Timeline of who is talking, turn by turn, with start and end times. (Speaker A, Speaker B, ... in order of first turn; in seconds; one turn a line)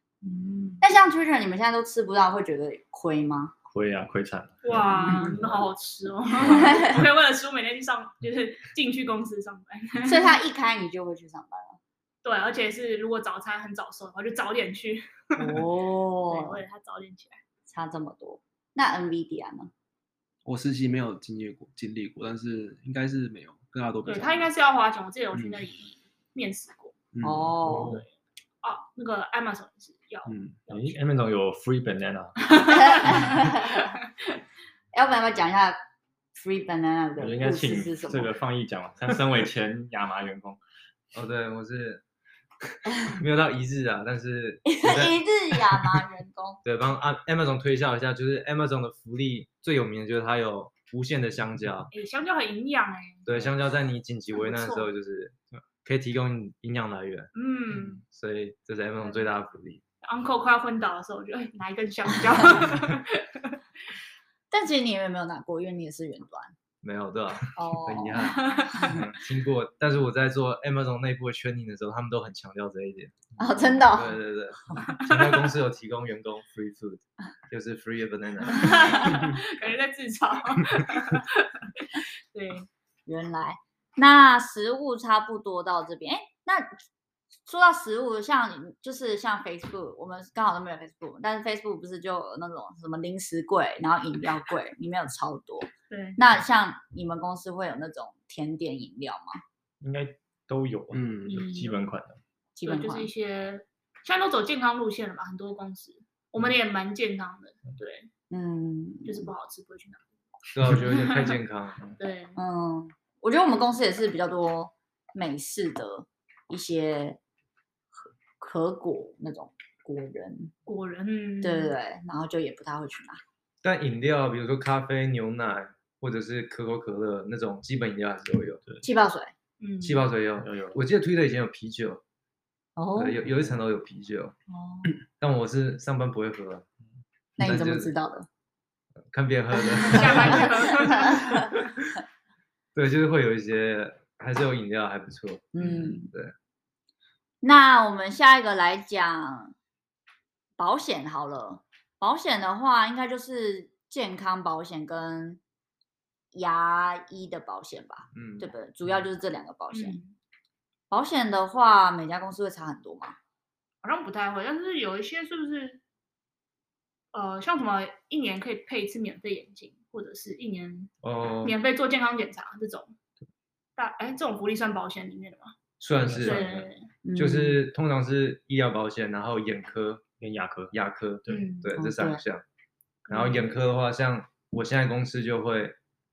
Speaker A: 0.4-0.8
Speaker B: 0.8-3.5
Speaker C: 3.7-5.6
Speaker A: 4.6-10.4
Speaker C: 6.4-7.0
Speaker B: 6.5-7.0
Speaker B: 10.0-11.8
Speaker A: 12.2-15.6
Speaker B: 15.4-16.6
Speaker A: 16.3-17.4
Speaker B: 17.7-19.7
Speaker D: 20.4-24.5
Speaker A: 24.1-27.0
Speaker D: 27.1-27.5
Speaker B: 27.2-28.0
Speaker E: 27.7-28.0
Speaker A: 28.6-31.0
Speaker D: 30.3-30.6
Speaker C: 30.7-32.3
Speaker A: 32.4-33.8
Speaker B: 32.7-33.9
Speaker B: 34.9-35.8
Speaker B: 36.3-38.3
Speaker C: 37.2-40.6
Speaker E: 41.1-42.0
Speaker E: 43.0-45.2
Speaker B: 44.7-46.6
Speaker E: 46.6-51.9
Speaker A: 51.9-53.3
Speaker E: 53.3-57.3
Speaker A: 54.4-54.9
Speaker A: 57.4-58.0
Speaker E: 57.9-59.8
Speaker A: 60.0-63.6
Speaker B: 64.5-66.5
Speaker E: 66.8-73.2
Speaker B: 67.5-68.4
Speaker A: 68.3-69.0
Speaker B: 73.4-74.2
Speaker E: 73.9-79.2
Speaker A: 74.8-75.5
Speaker A: 78.5-82.7
Speaker B: 83.1-86.7
Speaker B: 87.5-99.4
Speaker A: 95.9-96.2
Speaker C: 99.8-102.2
Speaker D: 100.9-101.5
Speaker A: 101.3-101.8
Speaker B: 102.6-103.1
Speaker A: 102.7-108.1
Speaker B: 108.3-109.3
Speaker A: 109.0-110.1
Speaker E: 110.5-111.8
Speaker A: 110.8-111.3
Speaker A: 112.0-112.4
Speaker B: 112.4-117.2
Speaker B: 118.0-120.5
Speaker A: 120.7-121.8
Speaker B: 121.4-123.2
Speaker E: 123.6-128.6
Speaker B: 128.8-129.3
Speaker A: 129.6-130.1
Speaker E: 129.8-132.0
Speaker C: 130.4-130.8
Speaker B: 132.8-133.2
Speaker E: 133.0-134.3
Speaker B: 134.5-134.9
Speaker E: 135.2-136.7
Speaker B: 137.4-138.3
Speaker E: 137.4-137.9
Speaker E: 139.1-141.6
Speaker B: 139.8-141.5
Speaker A: 139.8-141.4
Speaker E: 142.8-146.3
Speaker B: 145.5-146.1
Speaker B: 147.4-149.5
Speaker B: 150.6-155.4
Speaker B: 156.3-160.0
Speaker E: 158.1-158.5
Speaker A: 159.7-160.2
Speaker B: 160.9-163.2
Speaker A: 163.8-165.8
Speaker A: 167.1-170.9
Speaker E: 171.0-171.6
Speaker A: 171.4-172.9
Speaker A: 173.8-175.6
Speaker E: 175.8-176.5
Speaker C: 176.0-176.7
Speaker A: 176.2-176.9
Speaker B: 177.0-177.6
Speaker E: 177.2-180.0
Speaker C: 180.2-180.8
Speaker E: 180.7-182.4
Speaker A: 181.3-181.7
Speaker B: 181.8-182.2
Speaker A: 183.1-183.4
Speaker E: 183.1-185.8